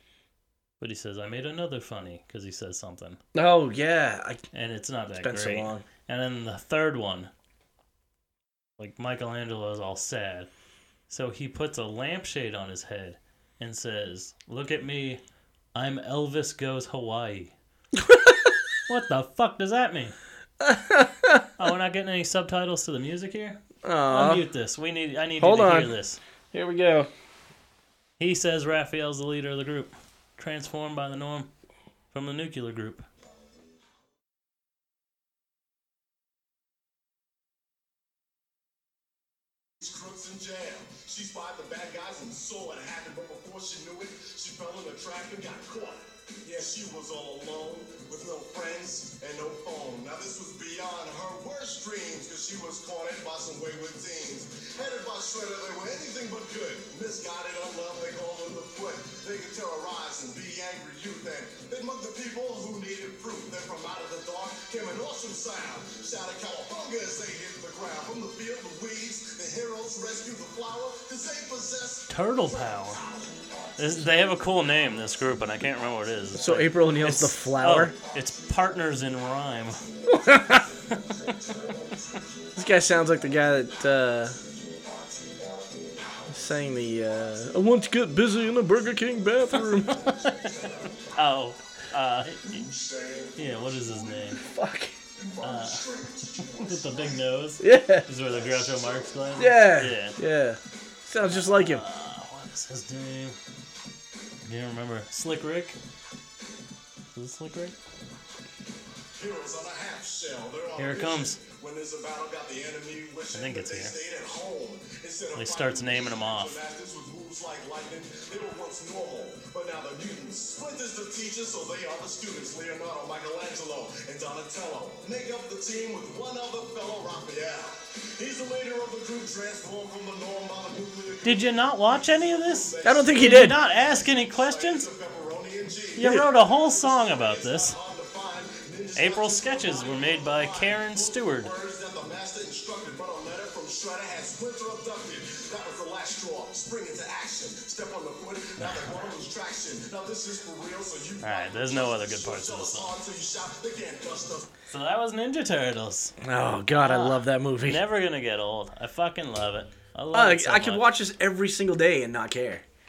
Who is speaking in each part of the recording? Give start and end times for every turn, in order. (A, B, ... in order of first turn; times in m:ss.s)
0:00.8-0:03.2 A
0:03.4-0:04.4 B
0:04.5-0:07.3 A
0:05.1-0:05.8 B
0:08.8-0:10.5 A
0:11.1-0:15.2 A
0:15.8-0:17.5 A
0:18.0-0:18.6 B
0:18.9-0:20.2 A
0:20.6-0:21.5 B
0:21.6-0:26.2 A
0:23.8-0:24.4 B
0:25.4-0:25.9 B
0:26.5-0:27.1 B
0:28.2-0:31.5 A
0:32.1-0:33.1 A
0:39.8-1:13.4 C
1:12.1-1:13.0 A
1:13.8-1:19.8 A
1:16.4-1:17.9 B
1:20.1-1:20.7 B
1:20.9-1:21.4 A
1:22.6-1:24.4 B
1:26.3-1:30.1 B
1:29.6-1:30.6 A
1:29.9-1:30.9 C
1:31.1-1:32.7 A
1:32.4-1:34.4 C
1:33.4-1:34.4 A
1:34.4-1:35.0 B
1:35.2-1:37.2 C
1:35.4-1:35.9 A
1:36.4-1:40.2 A
1:37.6-1:38.1 B
1:38.3-1:39.5 C
1:39.4-1:41.8 B
1:41.3-1:43.4 A
1:44.4-1:45.8 A
1:47.1-1:47.8 A
1:49.1-2:34.5 C
1:50.8-1:51.4 A
1:53.3-1:54.0 A
1:55.4-1:56.6 A
2:11.2-2:14.9 A
2:12.8-2:13.6 B
2:16.0-2:17.8 A
2:16.0-2:16.3 B
2:19.0-2:21.5 A
2:28.6-2:29.0 A
2:31.2-2:32.9 A
2:34.7-2:36.2 A
2:36.2-2:37.8 B
2:36.8-2:40.8 A
2:40.1-2:42.6 B